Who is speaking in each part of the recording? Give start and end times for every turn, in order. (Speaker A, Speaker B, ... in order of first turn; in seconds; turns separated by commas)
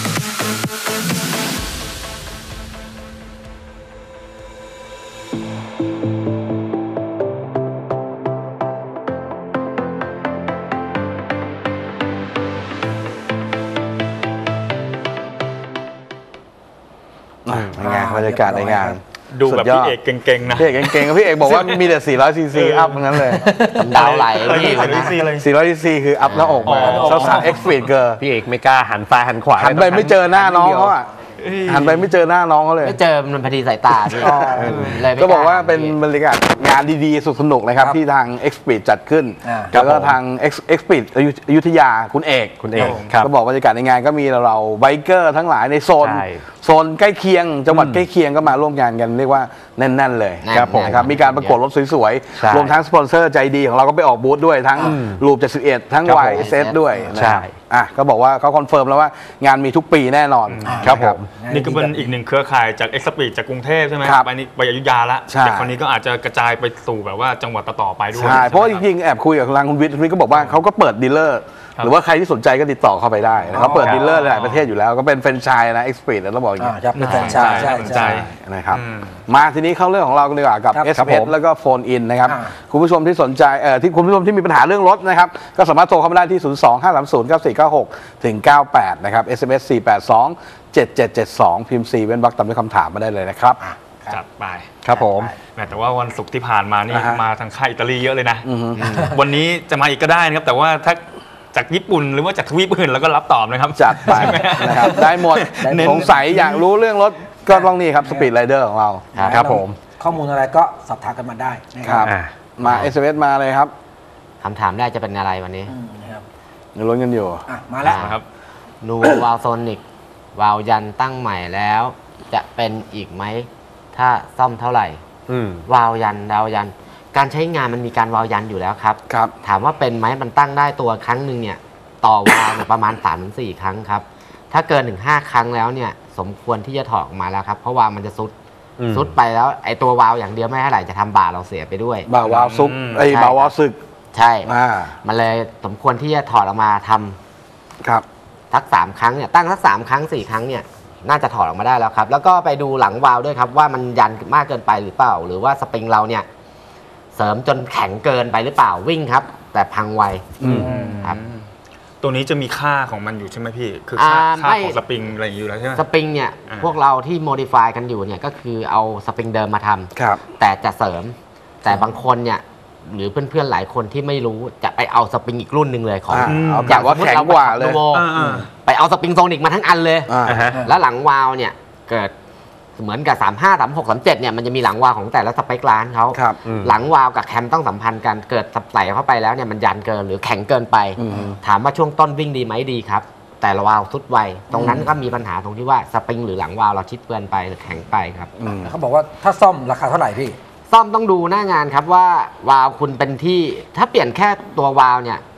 Speaker A: 17.5-20.0, Speaker B: 17.8-19.0, Speaker C: 19.3-22.0, Speaker A: 20.5-23.5, Speaker C: 22.5-25.5, Speaker B: 23.4-24.2, Speaker D: 23.8-25.2, Speaker A: 25.4-28.2, Speaker D: 26.2-26.9, Speaker C: 26.7-27.9, Speaker B: 26.8-27.6, Speaker E: 28.2-30.9, Speaker A: 29.6-31.1, Speaker C: 31.4-32.1, Speaker A: 31.7-33.0, Speaker D: 32.8-36.0, Speaker A: 34.1-61.2, Speaker E: 34.5-35.0, Speaker B: 39.4-39.7, Speaker E: 39.7-40.2, Speaker E: 42.6-43.3, Speaker C: 42.8-43.1, Speaker E: 46.0-46.4, Speaker E: 47.7-48.0, Speaker D: 50.4-51.6, Speaker E: 50.5-51.1, Speaker E: 52.4-52.7, Speaker E: 54.8-55.2, Speaker E: 56.1-56.5, Speaker D: 56.3-56.8, Speaker E: 57.1-57.5, Speaker C: 60.5-60.9, Speaker B: 60.6-62.1, Speaker E: 60.8-61.3, Speaker C: 61.4-68.9, Speaker A: 64.0-64.3, Speaker A: 65.3-65.7, Speaker A: 68.1-93.6, Speaker C: 70.3-70.6, Speaker B: 73.5-74.2, Speaker E: 73.7-74.0, Speaker C: 74.1-74.7, Speaker B: 76.6-78.2, Speaker C: 77.0-79.2, Speaker E: 77.0-77.7, Speaker E: 81.0-81.3, Speaker B: 82.2-82.5, Speaker B: 93.6-94.2, Speaker C: 94.1-94.8, Speaker E: 94.8-95.3, Speaker B: 94.9-95.3, Speaker C: 95.4-106.6, Speaker A: 96.9-97.2, Speaker A: 98.5-99.2, Speaker A: 103.8-109.1, Speaker B: 104.1-106.2, Speaker B: 107.5-108.3, Speaker B: 109.1-112.1, Speaker D: 109.2-109.5, Speaker E: 109.3-109.8, Speaker A: 111.8-113.7, Speaker E: 112.1-112.3, Speaker D: 112.6-112.9, Speaker D: 114.4-115.7, Speaker B: 115.7-116.2, Speaker A: 116.8-117.5, Speaker B: 117.5-118.0, Speaker D: 117.8-118.2, Speaker C: 117.9-118.2, Speaker D: 118.8-119.8, Speaker D: 120.3-125.0, Speaker E: 125.3-125.7, Speaker D: 125.7-138.3, Speaker E: 138.8-139.1, Speaker D: 138.9-142.1, Speaker A: 142.1-143.8, Speaker C: 142.2-143.1, Speaker D: 143.0-143.5, Speaker D: 144.1-144.5, Speaker A: 144.4-145.0, Speaker D: 145.0-147.2, Speaker D: 148.5-156.3, Speaker D: 157.2-161.2, Speaker A: 160.4-160.7, Speaker C: 160.5-161.5, Speaker C: 162.0-165.9, Speaker D: 164.0-164.8, Speaker D: 165.8-182.1, Speaker C: 166.5-166.8, Speaker A: 169.9-170.2, Speaker A: 176.1-177.8, Speaker C: 176.2-176.9, Speaker C: 177.9-178.5, Speaker A: 180.1-180.4, Speaker E: 180.3-180.6, Speaker D: 182.8-198.3, Speaker E: 186.4-186.8, Speaker A: 191.0-191.4, Speaker A: 194.5-194.9, Speaker A: 198.4-198.7, Speaker B: 198.5-200.4, Speaker D: 200.7-205.2